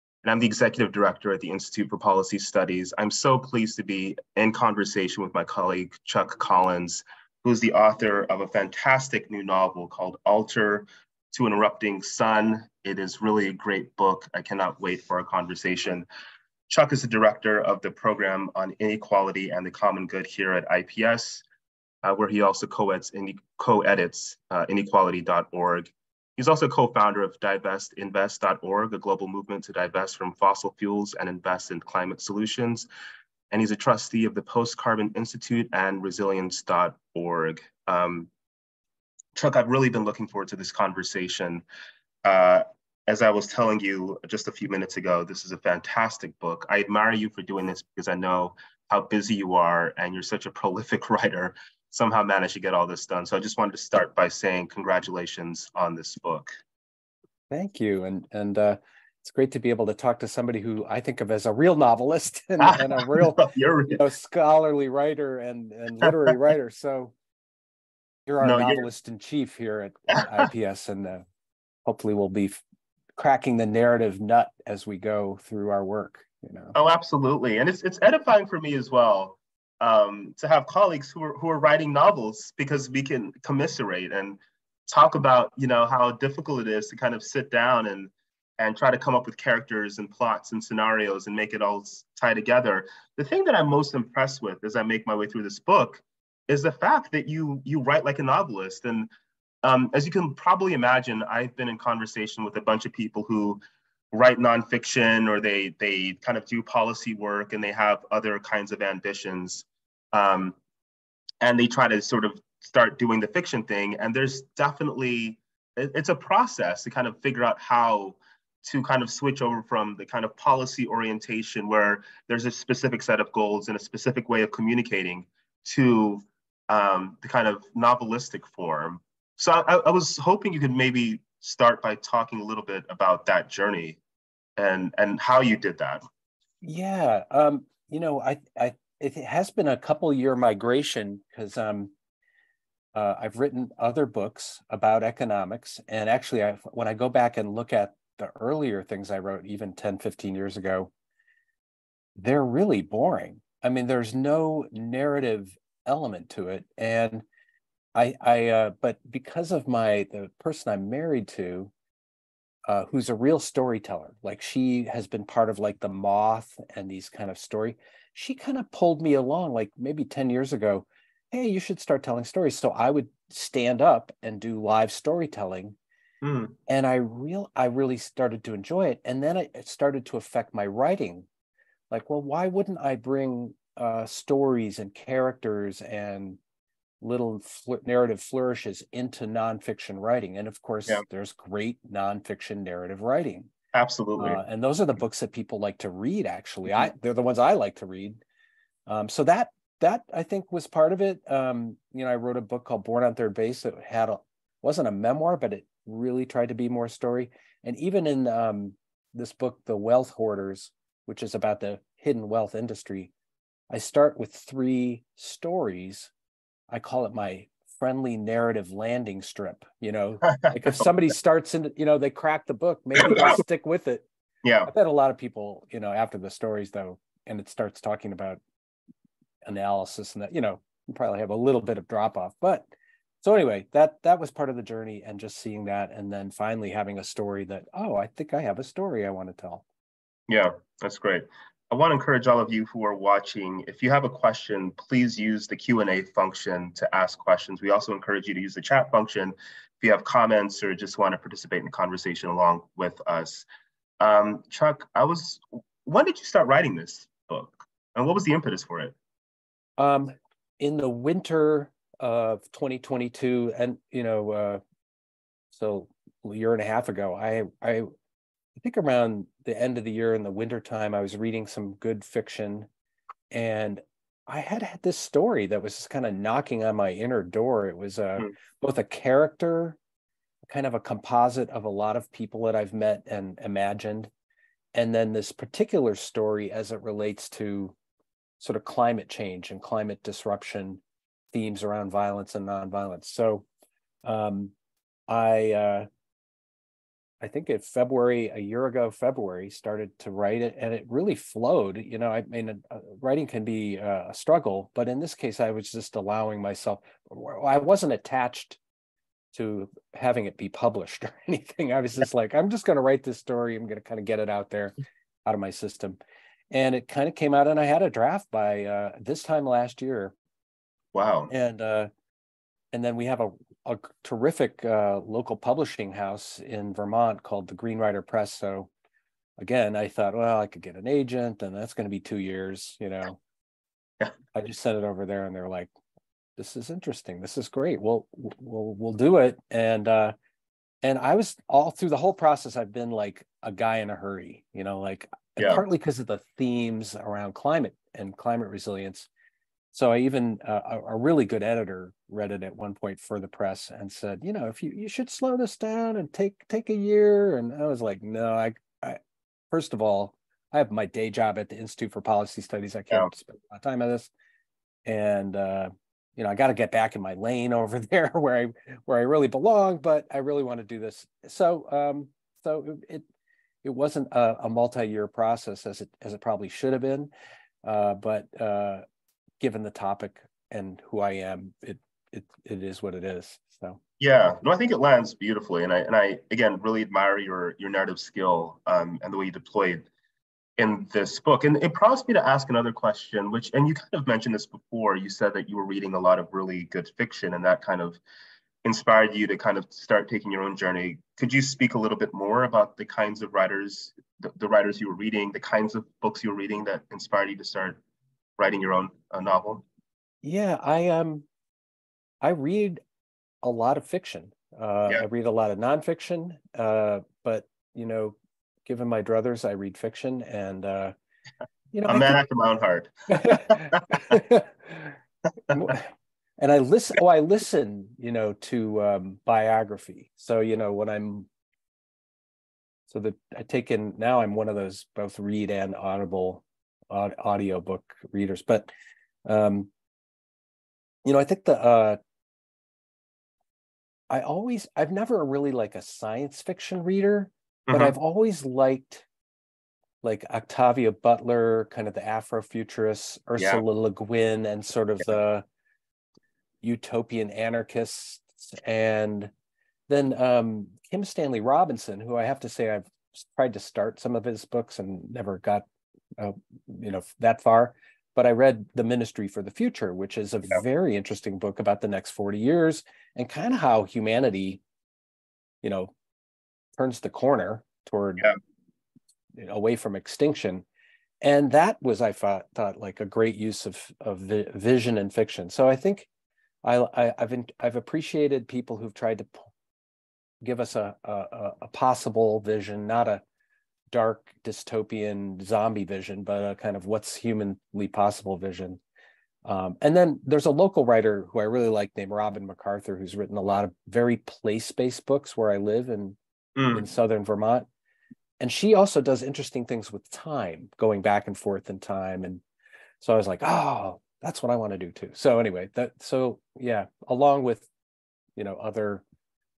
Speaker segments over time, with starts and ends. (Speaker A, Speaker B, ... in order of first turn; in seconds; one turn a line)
Speaker A: 0.2-16.1
Speaker A: 16.7-21.4
Speaker A: 22.0-32.9
Speaker A: 33.5-38.3
Speaker A: 39.3-41.6
Speaker A: 42.2-56.5
Speaker B: 57.5-67.1
Speaker A: 62.6-64.0
Speaker B: 68.3-71.2
Speaker A: 68.4-68.8
Speaker B: 71.8-72.6
Speaker B: 73.2-76.8
Speaker A: 76.7-99.1
Speaker A: 99.6-103.6
Speaker A: 104.1-110.6
Speaker A: 111.4-134.0
Speaker A: 134.6-136.0
Speaker B: 136.6-141.9
Speaker B: 142.9-150.9
Speaker B: 152.2-157.2
Speaker B: 157.9-161.7
Speaker B: 162.7-175.8
Speaker A: 176.2-176.5
Speaker B: 176.7-181.2
Speaker B: 181.9-186.4
Speaker B: 187.0-193.5
Speaker A: 193.7-194.4
Speaker B: 194.2-198.2
Speaker B: 198.9-213.1
Speaker B: 213.7-216.1
Speaker B: 216.7-224.0
Speaker A: 220.2-220.8
Speaker A: 224.4-224.7
Speaker B: 224.7-228.4
Speaker B: 229.4-232.7
Speaker B: 233.2-239.6
Speaker A: 240.3-253.4
Speaker A: 254.0-258.9
Speaker B: 259.8-264.6
Speaker B: 265.5-267.9
Speaker B: 268.6-272.7
Speaker B: 273.3-279.8
Speaker B: 280.5-284.1
Speaker B: 284.7-287.7
Speaker B: 288.4-290.8
Speaker B: 291.3-293.4
Speaker B: 294.0-294.5
Speaker B: 295.1-295.9
Speaker B: 297.2-308.6
Speaker B: 309.3-316.0
Speaker B: 316.5-320.1
Speaker A: 320.9-321.3
Speaker B: 321.3-321.9
Speaker B: 322.7-328.7
Speaker B: 329.4-333.2
Speaker B: 334.3-335.7
Speaker B: 336.4-340.1
Speaker B: 340.8-349.1
Speaker A: 345.4-345.6
Speaker B: 349.7-359.0
Speaker B: 359.5-364.1
Speaker B: 364.9-373.0
Speaker B: 373.6-377.1
Speaker B: 377.6-378.8
Speaker B: 379.4-383.8
Speaker A: 384.0-389.9
Speaker A: 390.6-398.0
Speaker A: 398.6-407.8
Speaker A: 408.4-409.6
Speaker B: 410.2-411.3
Speaker B: 412.2-412.8
Speaker B: 413.4-420.9
Speaker B: 421.7-422.2
Speaker A: 421.9-424.1
Speaker B: 423.1-424.9
Speaker B: 425.5-425.9
Speaker B: 426.4-431.3
Speaker B: 432.9-438.7
Speaker B: 439.2-439.7
Speaker B: 441.0-442.0
Speaker B: 444.1-449.1
Speaker A: 447.7-447.9
Speaker B: 450.0-455.4
Speaker A: 453.4-453.6
Speaker B: 456.6-459.3
Speaker B: 459.9-465.6
Speaker B: 466.2-474.6
Speaker B: 475.6-475.9
Speaker B: 476.8-478.3
Speaker B: 479.3-480.6
Speaker B: 481.2-486.1
Speaker B: 486.6-489.5
Speaker B: 490.4-493.2
Speaker B: 493.9-498.8
Speaker B: 499.4-506.2
Speaker A: 506.6-506.9
Speaker B: 506.7-507.7
Speaker B: 508.4-512.4
Speaker B: 513.0-517.7
Speaker B: 518.4-519.0